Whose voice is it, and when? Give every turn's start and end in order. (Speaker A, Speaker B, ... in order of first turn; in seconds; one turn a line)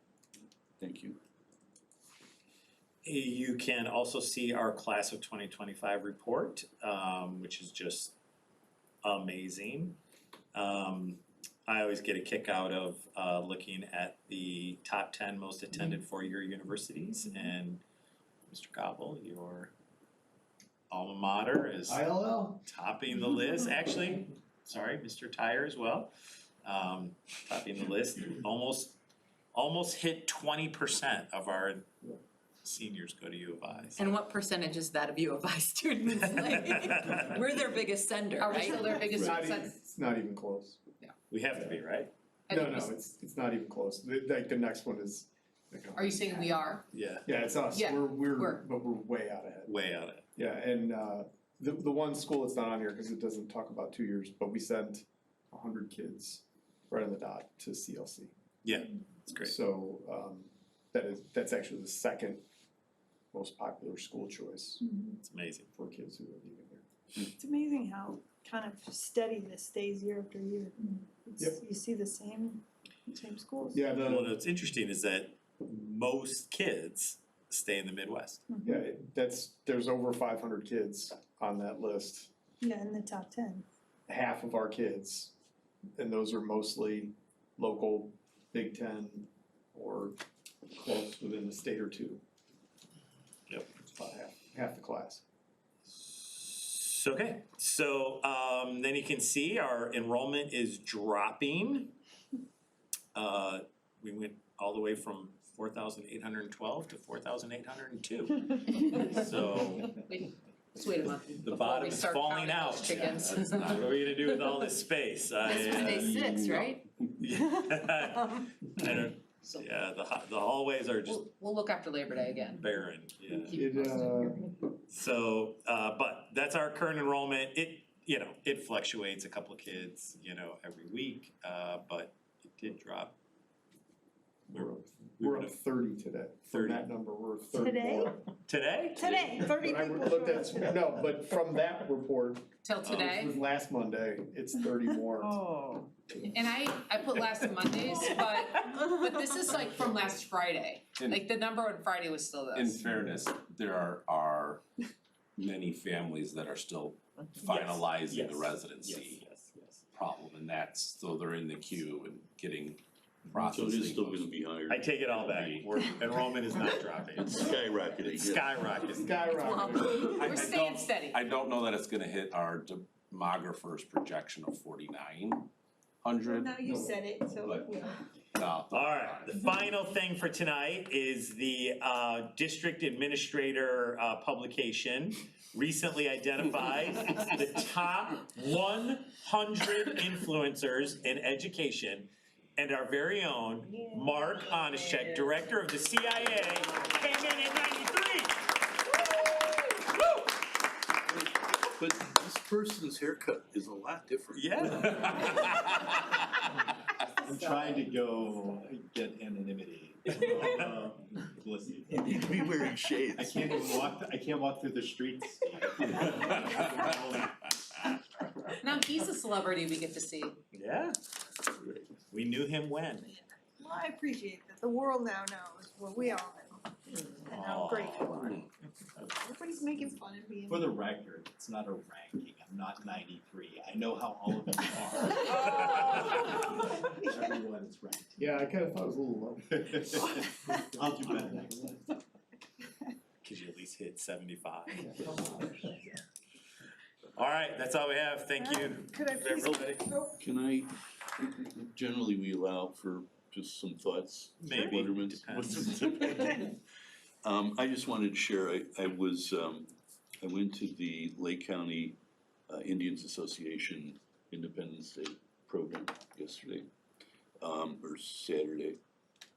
Speaker A: 0.8-1.2
Speaker B: 3.0-8.2
Speaker B: 9.0-10.0
Speaker B: 10.5-17.8
Speaker B: 18.5-19.7
Speaker B: 20.9-29.0
Speaker C: 21.9-22.6
Speaker B: 29.5-34.1
Speaker D: 34.0-39.2
Speaker B: 36.4-37.3
Speaker E: 38.4-39.8
Speaker F: 39.0-40.8
Speaker B: 41.3-42.1
Speaker F: 41.5-41.8
Speaker E: 42.5-42.9
Speaker F: 42.5-46.5
Speaker E: 46.0-46.8
Speaker B: 46.9-47.4
Speaker F: 47.2-49.7
Speaker E: 47.7-48.6
Speaker B: 49.7-50.3
Speaker F: 50.4-58.3
Speaker B: 58.6-59.6
Speaker F: 59.4-62.4
Speaker F: 63.3-64.8
Speaker G: 64.8-65.2
Speaker B: 65.2-65.7
Speaker F: 65.7-66.8
Speaker G: 67.4-73.8
Speaker F: 73.7-74.4
Speaker B: 73.9-78.5
Speaker G: 78.5-78.8
Speaker F: 78.6-82.3
Speaker G: 82.6-83.7
Speaker F: 84.1-85.3
Speaker F: 86.0-90.2
Speaker F: 90.7-92.2
Speaker F: 93.8-95.2
Speaker B: 95.9-102.0
Speaker B: 103.1-109.9
Speaker E: 109.8-114.2
Speaker B: 111.4-121.2
Speaker H: 112.9-113.9
Speaker D: 115.4-116.8
Speaker E: 121.0-122.7
Speaker B: 122.5-123.6
Speaker E: 123.3-124.4
Speaker F: 123.5-124.5
Speaker B: 124.9-133.2
Speaker F: 134.5-138.2
Speaker B: 134.5-135.6
Speaker B: 136.5-136.9
Speaker G: 137.5-138.1
Speaker B: 138.4-139.4
Speaker G: 139.0-140.7
Speaker F: 139.4-145.4
Speaker E: 142.6-143.4
Speaker E: 146.2-152.8
Speaker H: 152.5-154.6
Speaker H: 155.4-159.2
Speaker B: 157.5-159.8
Speaker H: 159.9-164.3
Speaker A: 163.3-165.3
Speaker B: 164.7-167.4
Speaker H: 165.1-165.9
Speaker A: 167.1-168.9
Speaker B: 168.2-169.2
Speaker F: 168.9-170.2
Speaker D: 169.2-170.4
Speaker E: 170.2-171.2
Speaker H: 170.3-175.5
Speaker H: 176.0-176.7
Speaker G: 176.2-178.0
Speaker F: 176.6-177.0
Speaker H: 177.4-177.8
Speaker H: 178.4-179.5
Speaker B: 178.7-198.6
Speaker E: 193.8-195.2
Speaker A: 201.1-205.7
Speaker B: 204.3-205.9
Speaker C: 207.2-212.0
Speaker G: 207.2-208.6
Speaker B: 210.2-210.7
Speaker A: 211.9-213.8
Speaker G: 212.1-212.5
Speaker C: 213.2-217.3
Speaker G: 216.1-216.3
Speaker E: 218.6-220.4
Speaker B: 220.5-221.0
Speaker B: 221.6-223.1
Speaker G: 223.1-228.4
Speaker B: 227.3-228.2
Speaker H: 228.1-228.4
Speaker B: 228.9-229.3
Speaker G: 229.2-230.8
Speaker C: 230.4-238.3
Speaker G: 235.2-237.1
Speaker B: 235.3-236.4
Speaker F: 238.2-241.6
Speaker C: 240.7-241.9
Speaker B: 243.2-245.0
Speaker F: 244.8-245.8
Speaker B: 247.1-249.9
Speaker G: 248.4-250.2
Speaker A: 250.2-256.6
Speaker B: 254.4-255.9
Speaker G: 256.0-256.4
Speaker A: 257.2-262.0
Speaker A: 262.5-266.7
Speaker A: 267.4-268.8